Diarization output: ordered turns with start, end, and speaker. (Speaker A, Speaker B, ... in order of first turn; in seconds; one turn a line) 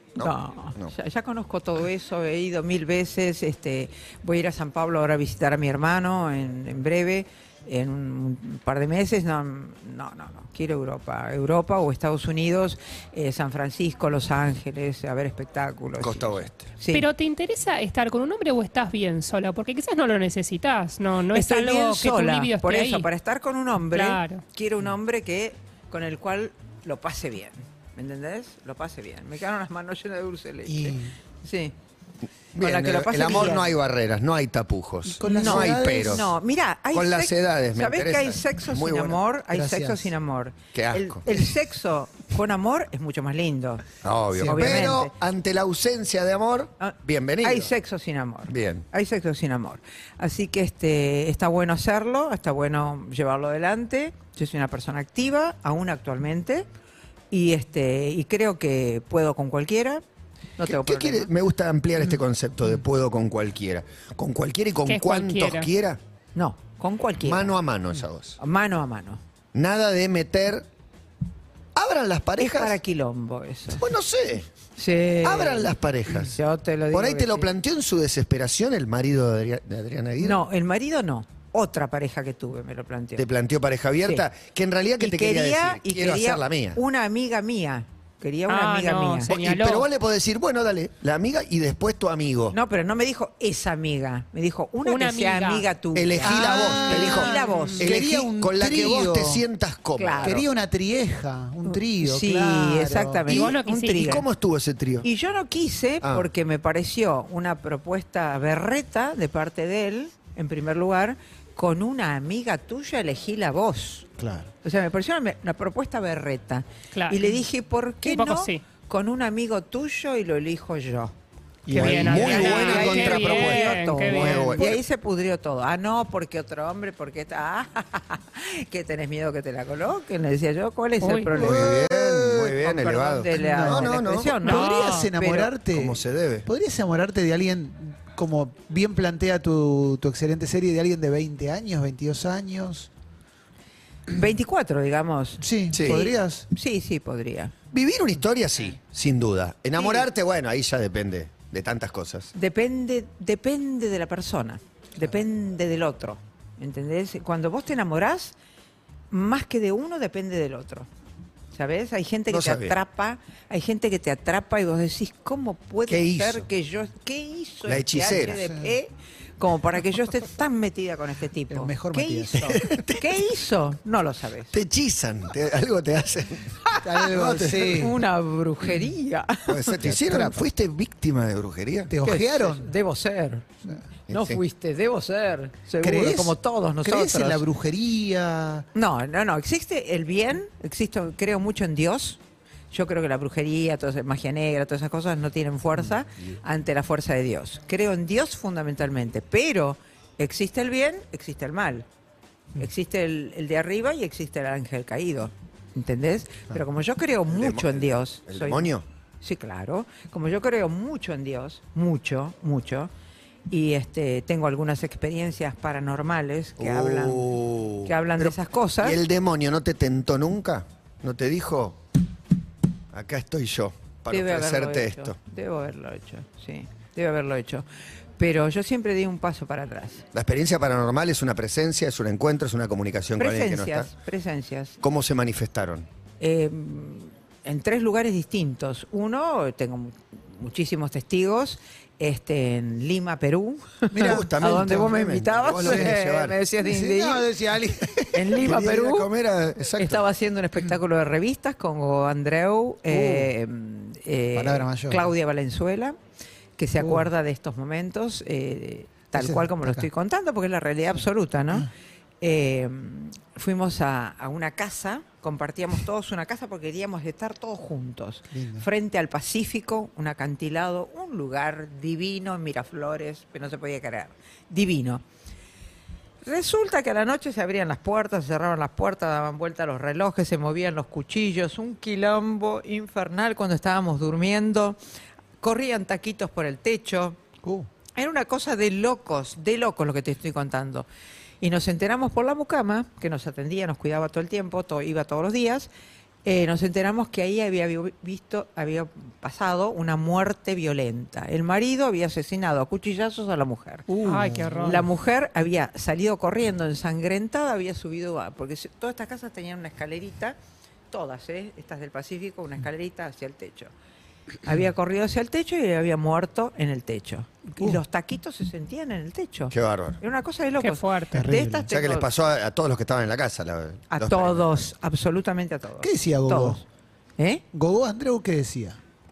Speaker A: 0.1-0.9
Speaker B: 0.2-17.1
Speaker A: 16.0-16.7
Speaker C: 16.9-23.1
Speaker B: 21.3-31.7
Speaker C: 23.9-24.4
Speaker D: 30.6-31.1
Speaker A: 32.5-36.3
Speaker B: 32.6-33.7
Speaker D: 35.1-36.3
Speaker B: 35.3-43.9
Speaker A: 36.9-39.2
Speaker D: 39.5-40.1
Speaker A: 40.7-41.4
Speaker A: 44.0-47.7
Speaker B: 44.4-45.1
Speaker D: 44.4-44.9
Speaker B: 46.8-56.7
Speaker A: 48.5-48.9
Speaker B: 57.3-60.0
Speaker B: 60.6-61.3
Speaker A: 60.6-66.0
Speaker C: 64.9-65.7
Speaker B: 66.3-67.5
Speaker A: 67.2-68.4
Speaker B: 68.4-69.2
Speaker A: 69.5-70.7
Speaker A: 71.7-72.8
Speaker B: 72.4-73.9
Speaker A: 73.8-74.5
Speaker B: 74.8-77.5
Speaker A: 75.2-76.4
Speaker A: 76.9-80.4
Speaker B: 80.2-83.3
Speaker A: 83.2-86.8
Speaker B: 85.0-89.3
Speaker C: 88.5-89.9
Speaker A: 89.3-92.5
Speaker B: 92.5-97.9
Speaker C: 94.8-95.7
Speaker A: 95.9-100.4
Speaker D: 96.2-99.4
Speaker C: 97.4-97.8
Speaker B: 100.0-100.5
Speaker D: 100.2-103.2
Speaker B: 101.7-104.2
Speaker C: 103.3-104.2
Speaker A: 103.3-105.1
Speaker B: 105.0-114.1
Speaker A: 106.0-106.3
Speaker D: 114.2-114.4
Speaker B: 114.6-121.1
Speaker C: 116.9-117.3
Speaker C: 118.0-118.6
Speaker D: 121.7-122.0
Speaker A: 121.7-124.8
Speaker C: 121.7-124.6
Speaker B: 121.8-135.5
Speaker C: 131.0-131.4
Speaker A: 131.3-134.4
Speaker D: 131.4-131.8
Speaker D: 133.3-142.9
Speaker C: 134.4-135.1
Speaker A: 135.7-136.5
Speaker B: 144.1-147.5
Speaker D: 145.4-146.4
Speaker A: 145.7-146.1
Speaker A: 147.7-152.3
Speaker B: 149.8-150.1
Speaker B: 152.3-158.3
Speaker B: 159.1-160.9
Speaker B: 161.5-174.6
Speaker A: 162.3-162.8
Speaker A: 165.9-166.5
Speaker A: 167.6-168.4
Speaker D: 168.3-168.7
Speaker D: 171.5-172.7
Speaker A: 172.3-173.3
Speaker A: 174.5-177.9
Speaker D: 176.8-177.9
Speaker B: 177.5-179.8
Speaker A: 179.5-181.9
Speaker D: 179.9-180.4
Speaker D: 181.9-182.7
Speaker B: 182.0-187.4
Speaker A: 184.1-184.4
Speaker D: 185.8-188.6
Speaker B: 188.7-192.2
Speaker B: 192.7-201.9
Speaker B: 202.6-212.9
Speaker A: 207.3-208.8
Speaker B: 213.5-219.0
Speaker A: 216.6-221.8
Speaker A: 222.9-225.2
Speaker B: 224.1-227.6
Speaker B: 228.2-230.0
Speaker A: 230.1-233.9
Speaker B: 233.2-234.8
Speaker A: 234.8-235.9
Speaker B: 236.2-247.3
Speaker D: 243.9-244.9
Speaker A: 244.0-246.4
Speaker D: 245.6-245.9
Speaker D: 246.6-248.4
Speaker B: 248.1-249.1
Speaker A: 248.4-250.0
Speaker B: 249.7-255.9
Speaker D: 252.9-253.3
Speaker D: 254.3-255.1
Speaker B: 256.6-261.7
Speaker D: 256.8-257.1
Speaker D: 259.1-259.9
Speaker B: 262.2-275.0
Speaker D: 268.3-268.6
Speaker B: 276.2-284.8
Speaker B: 285.4-287.2
Speaker D: 287.4-287.7
Speaker B: 287.9-290.9
Speaker B: 291.4-295.7
Speaker B: 296.2-303.9
Speaker D: 303.9-304.8
Speaker C: 304.0-304.9
Speaker B: 304.6-310.4
Speaker B: 310.9-313.7
Speaker B: 314.4-322.1
Speaker D: 317.6-317.8
Speaker A: 319.5-320.0
Speaker C: 320.6-321.3
Speaker D: 321.1-321.7
Speaker A: 321.7-324.7
Speaker B: 323.9-326.6
Speaker D: 325.8-326.6
Speaker B: 327.2-327.4
Speaker D: 327.5-328.8